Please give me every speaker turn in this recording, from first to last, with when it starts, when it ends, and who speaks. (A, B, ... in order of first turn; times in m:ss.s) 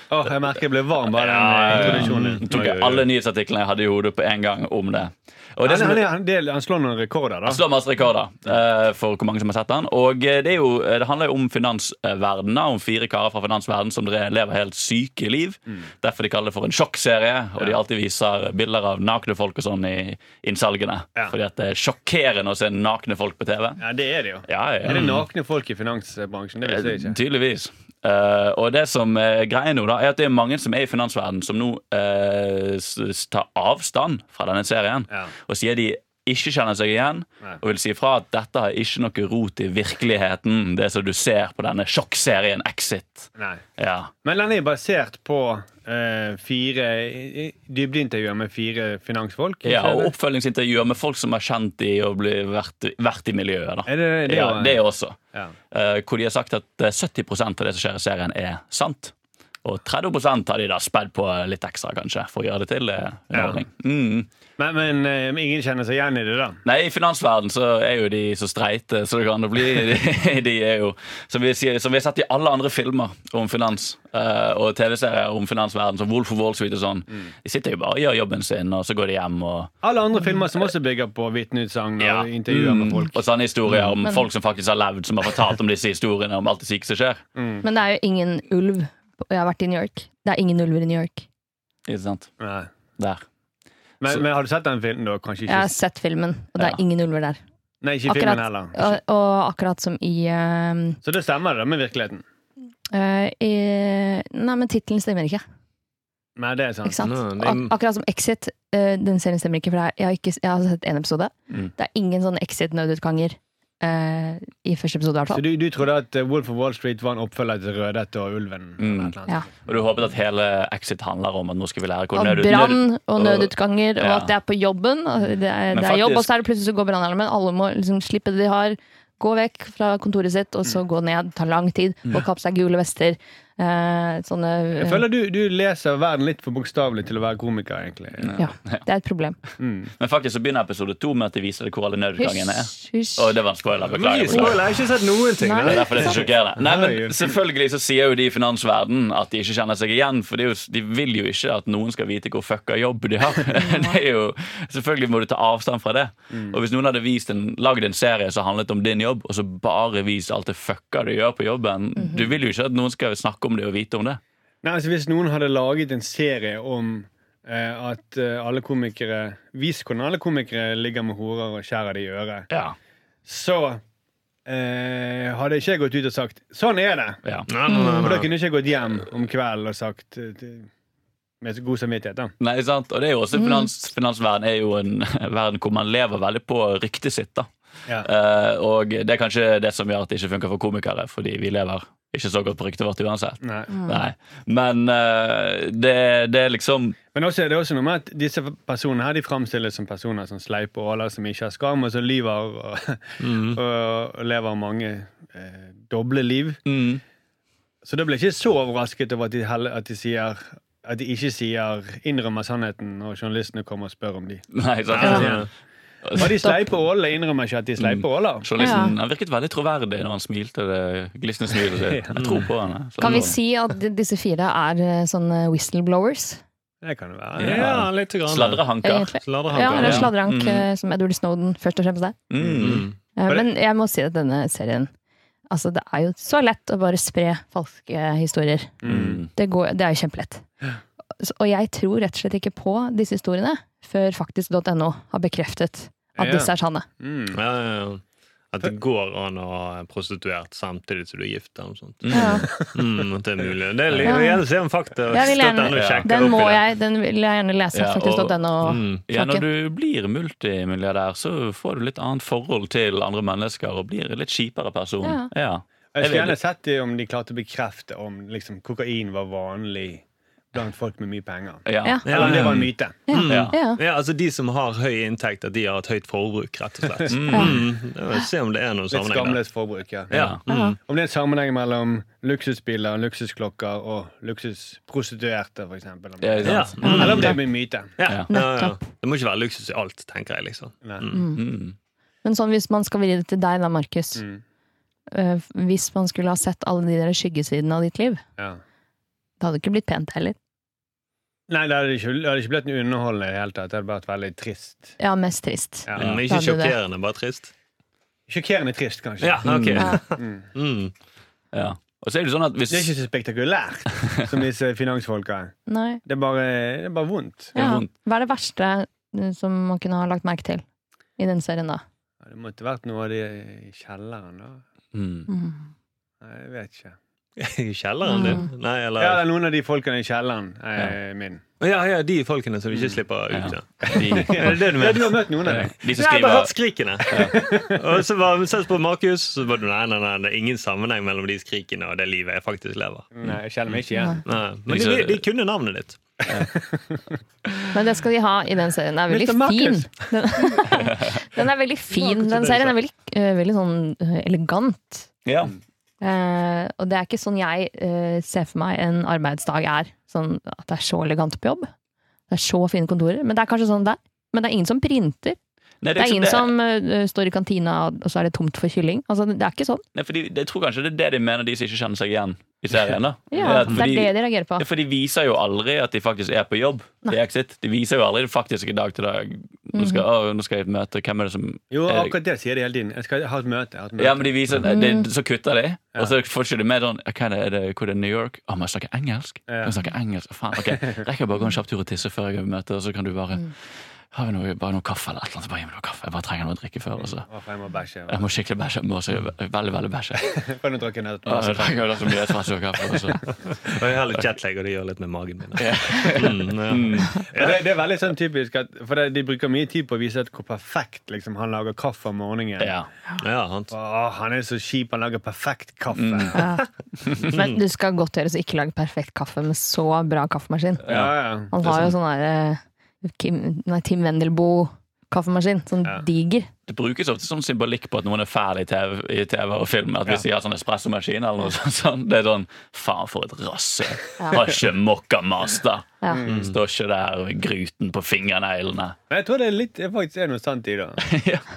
0:00.1-0:03.0 A
0:01.1-0:06.0 B
0:02.1-0:02.4 C
0:05.6-0:07.6 A
0:07.4-0:23.8 B
0:23.8-0:27.2 A
0:24.5-0:25.2 B
0:26.7-0:44.1 B
0:43.4-0:43.6 A
0:44.2-0:50.1 A
0:49.6-0:55.2 B
0:53.8-0:54.8 A
0:55.7-1:04.3 B
1:03.3-1:03.6 A
1:04.6-1:06.6 A
1:06.6-1:19.7 B
1:19.8-1:23.2 A
1:22.0-1:27.2 B
1:27.4-1:27.6 A
1:27.6-1:31.3 D
1:31.9-1:32.3 B
1:32.4-1:32.7 A
1:33.0-1:33.2 B
1:34.0-1:35.7 A
1:35.4-1:37.4 D
1:37.8-1:39.0 A
1:38.0-1:41.0 D
1:41.0-1:42.2 A
1:42.9-1:45.4 D
1:46.4-1:47.1 A
1:46.8-1:55.4 D
1:47.0-1:47.7 C
1:55.3-1:59.7 A
1:58.8-2:04.3 B
2:02.1-2:15.0 D
2:05.7-2:06.3 B
2:14.7-2:18.4 A
2:18.2-2:18.8 B
2:18.4-2:19.4 D
2:19.6-2:19.9 A
2:20.0-2:24.8 B
2:22.2-2:23.3 D
2:23.9-2:26.2 C
2:25.4-2:26.2 D
2:25.6-2:44.2 B
2:26.6-2:27.4 A
2:33.5-2:34.0 D
2:36.3-2:36.6 A
2:42.0-2:42.3 D
2:44.6-2:52.5 A
2:52.5-2:52.8 B
2:53.2-2:53.8 A
2:54.4-2:57.2 A
2:57.5-2:58.3 C
2:57.7-2:58.1 D
2:57.9-3:00.7 A
3:01.4-3:02.3 A
3:02.4-3:07.5 B
3:03.4-3:03.7 D
3:08.0-3:17.0 B
3:13.4-3:13.7 A
3:13.7-3:14.0 D
3:17.1-3:26.6 A
3:23.2-3:23.6 C
3:26.6-3:27.0 B
3:27.8-3:35.5 A
3:34.5-3:35.5 B
3:34.9-3:35.5 C
3:36.0-3:36.4 B
3:36.1-3:38.5 A
3:36.2-3:36.6 D
3:37.8-3:43.4 B
3:38.6-3:39.0 D
3:41.8-3:42.4 A
3:42.1-3:42.5 C
3:43.0-3:46.4 D
3:46.8-3:47.6 A
3:47.4-3:48.6 C
3:47.4-3:50.6 B
3:48.8-3:52.2 D
3:49.2-3:50.1 C
3:52.3-3:52.9 B
3:52.4-3:53.5 A
3:52.6-3:52.9 C
3:53.2-3:54.9 D
3:55.5-3:58.8 D
3:58.8-3:59.2 A
3:58.8-3:59.3 B
3:59.3-4:00.4 D
4:01.2-4:06.8 D
4:06.2-4:07.4 A
4:07.3-4:16.6 C
4:12.0-4:12.4 B
4:12.1-4:12.5 D
4:12.6-4:12.9 A
4:13.9-4:14.1 B
4:14.0-4:14.4 D
4:15.1-4:19.4 D
4:15.7-4:16.1 B
4:17.7-4:18.4 B
4:18.6-4:19.0 C
4:19.1-4:26.4 B
4:25.0-4:25.3 D
4:25.9-4:33.1 A
4:31.6-4:32.7 B
4:32.0-4:39.4 C
4:33.1-4:33.8 D
4:33.2-4:33.5 B
4:37.0-4:37.6 A
4:37.1-4:37.6 B
4:37.3-4:37.6 D
4:38.9-4:40.2 A
4:40.1-4:40.8 C
4:40.1-4:40.4 B
4:40.5-4:40.8 D
4:40.8-4:47.9 A
4:46.2-4:47.4 B
4:46.4-4:47.4 C
4:46.8-4:47.4 D
4:48.0-4:51.2 C
4:48.3-4:48.8 D
4:51.1-4:51.4 D
4:51.3-4:51.8 B
4:52.2-4:54.2 D
4:54.2-4:54.4 A
4:55.1-4:58.2 D
4:59.4-5:00.4 D
5:01.5-5:05.0 A
5:05.0-5:06.8 D
5:05.8-5:06.2 A
5:06.0-5:07.5 C
5:06.0-5:06.2 B
5:08.3-5:10.4 A
5:09.2-5:10.9 C
5:09.4-5:09.9 B
5:11.5-5:12.9 B
5:12.7-5:17.5 A
5:15.7-5:16.0 D
5:17.5-5:17.9 B
5:17.5-5:20.6 D
5:21.2-5:21.8 D
5:22.2-5:24.6 A
5:24.9-5:25.3 B
5:25.3-5:25.7 D
5:26.2-5:27.0 A
5:27.4-5:29.2 C
5:28.0-5:28.5 D
5:29.0-5:31.4 A
5:31.6-5:43.1 C
5:32.7-5:33.0 A
5:33.3-5:34.7 B
5:33.8-5:35.7 A
5:35.4-5:36.5 B
5:37.0-5:37.4 B
5:37.1-5:37.8 A
5:43.1-5:44.2 A
5:44.2-5:46.0 C
5:44.7-5:45.2 B
5:46.3-5:47.0 A
5:47.7-5:55.1 D
5:49.1-5:50.6 A
5:51.9-5:52.8 C
5:55.2-5:55.5 B
5:56.0-6:01.7 D
6:02.3-6:05.4 D
6:05.8-6:06.5 B
6:06.0-6:09.8 D
6:09.9-6:22.1 B
6:13.3-6:14.6 D
6:13.5-6:13.8 C
6:19.7-6:20.0 D
6:21.7-6:24.6 A
6:24.0-6:33.5 B
6:24.6-6:25.1 D
6:29.5-6:29.8 A
6:30.6-6:31.0 A
6:34.1-6:37.3 B
6:37.0-6:38.3 A
6:38.1-6:40.4 B
6:40.3-6:42.4 A
6:41.2-6:43.3 B
6:43.6-6:47.6 C
6:45.6-6:47.2 B
6:47.3-6:52.7 A
6:52.6-6:52.9 B
6:53.2-6:53.7 C
6:53.7-6:56.4 A
6:55.9-6:56.4 B
6:56.3-6:56.7 D
6:57.2-7:00.9 D
7:00.8-7:01.5 A
7:00.8-7:01.9 B
7:01.5-7:06.5 D
7:06.7-7:19.0 B
7:16.1-7:16.5 A
7:16.3-7:16.5 C
7:19.1-7:21.0 A
7:21.0-7:21.4 B